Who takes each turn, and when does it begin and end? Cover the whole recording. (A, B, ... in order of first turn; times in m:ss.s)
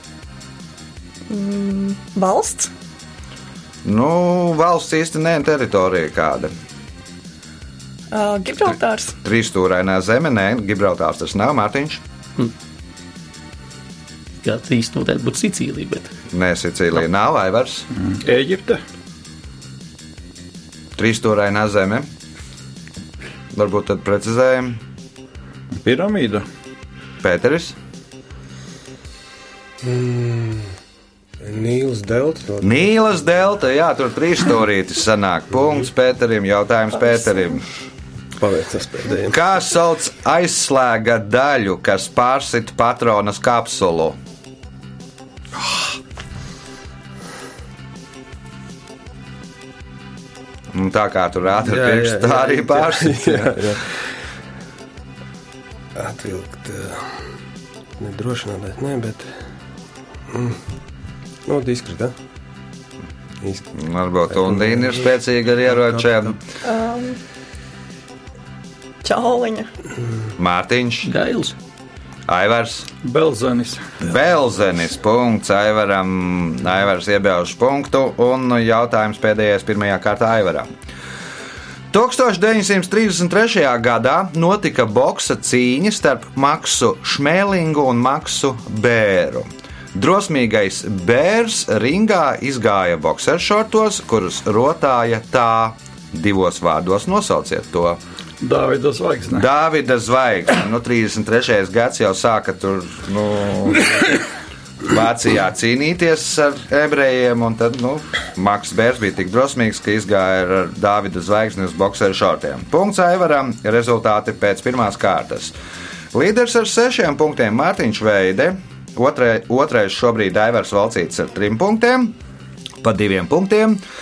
0:01.3-0:02.7 A
0:03.8-0:06.5 B
0:08.1-0:09.2 A
0:09.2-0:12.0 B
0:14.4-0:16.1 C
0:16.3-0:17.8 B
0:18.0-0:18.8 D
0:21.0-0:22.1 B
0:23.5-0:24.8 B
0:25.8-0:26.4 D
0:27.2-0:27.7 B
0:29.8-0:30.7 E
0:31.4-0:32.9 E
0:32.6-0:37.6 B
0:38.4-0:39.4 E
0:39.3-0:44.2 B
0:50.7-0:53.6 B
0:51.6-0:54.0 E
0:56.0-0:57.3 E
0:58.0-0:59.3 E
1:00.3-1:00.6 E
1:01.5-1:02.1 E
1:03.4-1:03.7 E
1:03.7-1:06.4 B
1:04.3-1:05.0 E
1:06.6-1:07.2 A
1:09.0-1:09.7 A
1:10.4-1:11.1 B
1:11.0-1:11.5 C
1:12.3-1:12.9 B
1:13.0-1:14.0 D
1:14.0-1:20.7 B
1:21.9-1:38.0 B
1:38.4-1:39.4 D
1:39.3-1:44.1 B
1:44.8-1:55.5 B
1:56.1-2:02.1 B
2:02.8-2:03.8 B